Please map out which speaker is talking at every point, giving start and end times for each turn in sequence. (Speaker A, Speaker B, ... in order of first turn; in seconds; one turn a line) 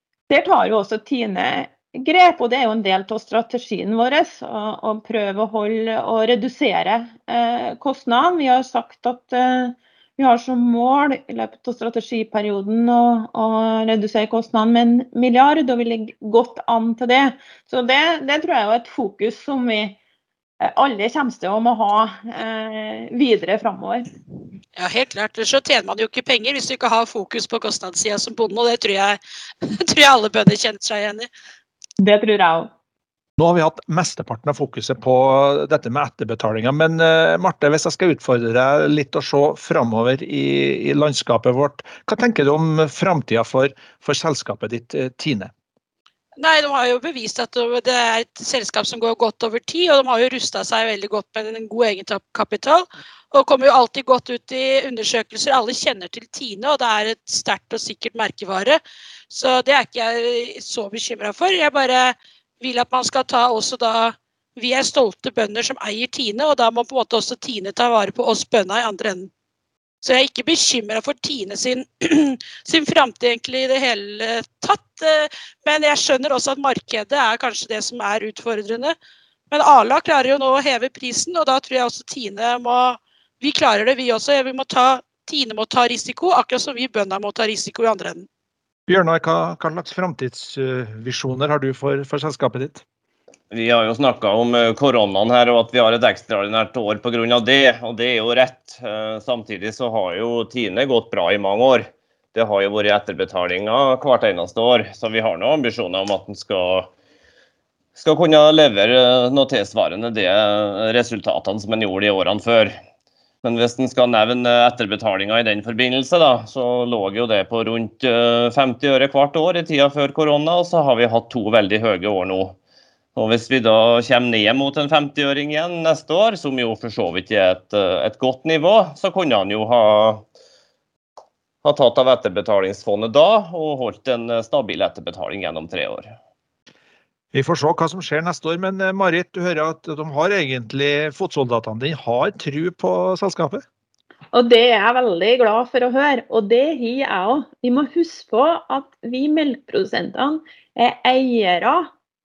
Speaker A: 0.3-20.0
Speaker A: 20.6-24.1
Speaker B: 24.8-31.3
Speaker A: 32.0-32.7
Speaker C: 33.4-45.5
Speaker B: 46.4-69.3
Speaker B: 70.0-78.9
Speaker B: 79.5-88.3
Speaker C: 88.9-92.8
Speaker D: 93.5-106.9
Speaker D: 108.0-112.7
Speaker D: 113.4-122.6
Speaker D: 123.2-130.2
Speaker D: 131.6-136.1
Speaker C: 137.3-143.6
Speaker A: 144.3-151.9